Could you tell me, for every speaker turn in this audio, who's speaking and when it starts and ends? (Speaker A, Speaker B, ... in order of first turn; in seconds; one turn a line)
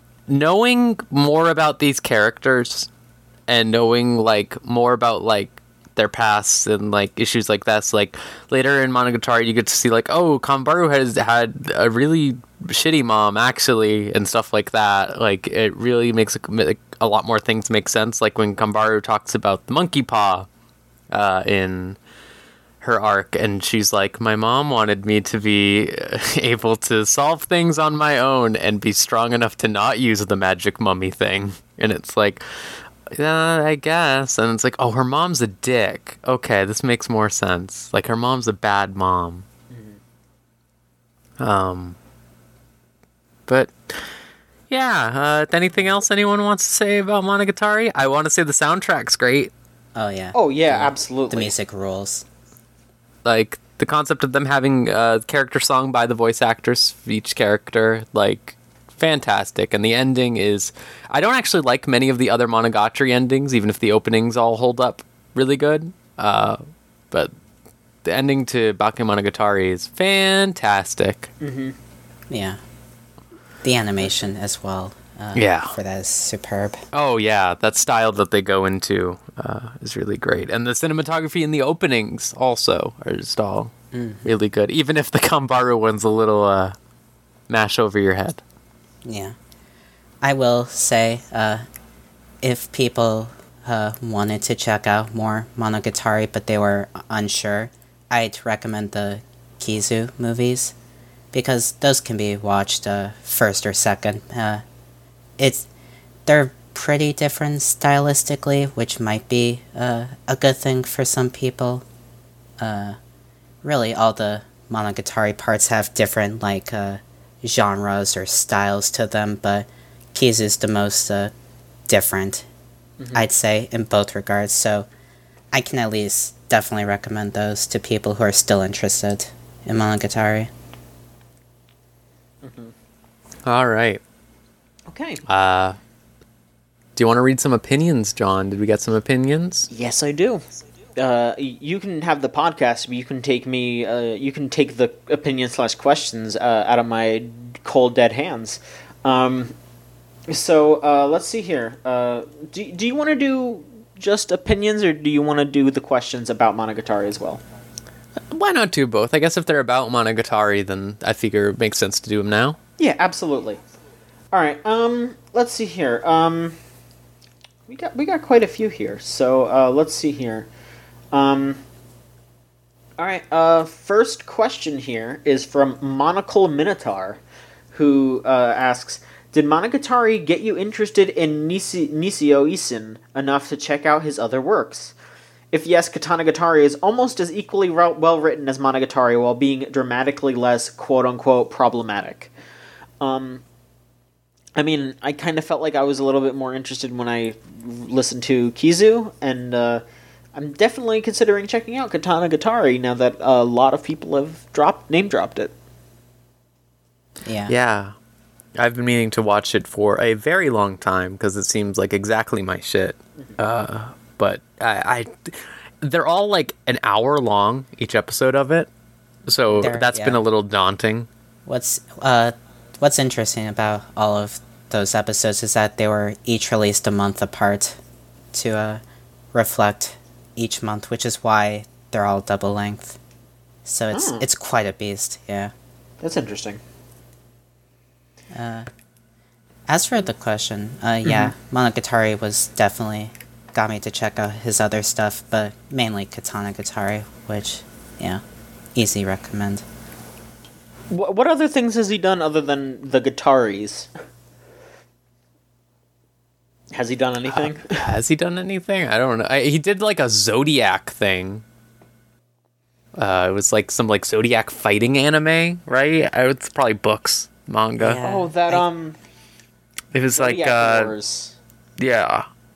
Speaker A: 0.3-2.9
Speaker A: 3.5-20.5
Speaker A: 21.1-22.0
Speaker A: 22.8-32.4
Speaker A: 33.1-39.4
Speaker B: 39.7-40.0
Speaker A: 41.4-42.0
Speaker A: 43.5-44.1
Speaker A: 44.7-49.5
Speaker C: 49.9-52.2
Speaker B: 50.3-51.5
Speaker A: 53.2-67.3
Speaker A: 68.0-71.3
Speaker B: 71.4-71.8
Speaker C: 72.3-72.6
Speaker C: 73.6-76.8
Speaker A: 75.3-75.7
Speaker A: 76.9-83.7
Speaker C: 83.9-84.3
Speaker A: 84.2-86.7
Speaker A: 87.5-88.4
Speaker C: 89.0-89.3
Speaker C: 90.2-91.6
Speaker C: 92.4-100.7
Speaker C: 101.3-104.6
Speaker C: 105.4-105.7
Speaker C: 106.2-111.8
Speaker C: 112.6-113.0
Speaker C: 113.6-121.3
Speaker C: 121.9-122.5
Speaker B: 123.0-123.2
Speaker C: 123.1-124.9
Speaker C: 125.5-130.5
Speaker B: 132.4-132.7
Speaker A: 133.4-134.0
Speaker B: 134.9-135.2
Speaker A: 135.2-135.8
Speaker A: 136.9-139.7
Speaker B: 139.7-140.4
Speaker B: 140.9-149.5
Speaker B: 150.3-157.4
Speaker A: 158.3-162.6
Speaker B: 162.8-163.6
Speaker B: 164.3-166.6
Speaker B: 167.7-170.5
Speaker B: 171.1-171.6
Speaker B: 173.0-177.2
Speaker B: 177.7-184.9
Speaker B: 185.5-192.3
Speaker B: 193.0-193.4
Speaker B: 194.6-199.8
Speaker B: 200.3-205.5
Speaker C: 207.2-207.5
Speaker A: 207.5-207.9
Speaker A: 208.5-218.7
Speaker A: 219.3-221.1
Speaker C: 219.5-220.2
Speaker C: 221.4-227.8
Speaker C: 228.3-228.8
Speaker C: 229.3-233.0
Speaker C: 233.6-235.5
Speaker B: 233.9-234.2
Speaker B: 236.0-236.6
Speaker C: 238.3-238.7
Speaker C: 239.7-248.2
Speaker B: 241.0-241.3
Speaker C: 248.7-249.6
Speaker B: 250.9-253.9
Speaker B: 256.7-257.8
Speaker A: 257.3-261.4
Speaker A: 262.9-268.0
Speaker C: 267.8-268.6
Speaker B: 267.9-269.0
Speaker A: 269.9-270.9
Speaker B: 270.1-271.4
Speaker A: 271.8-272.3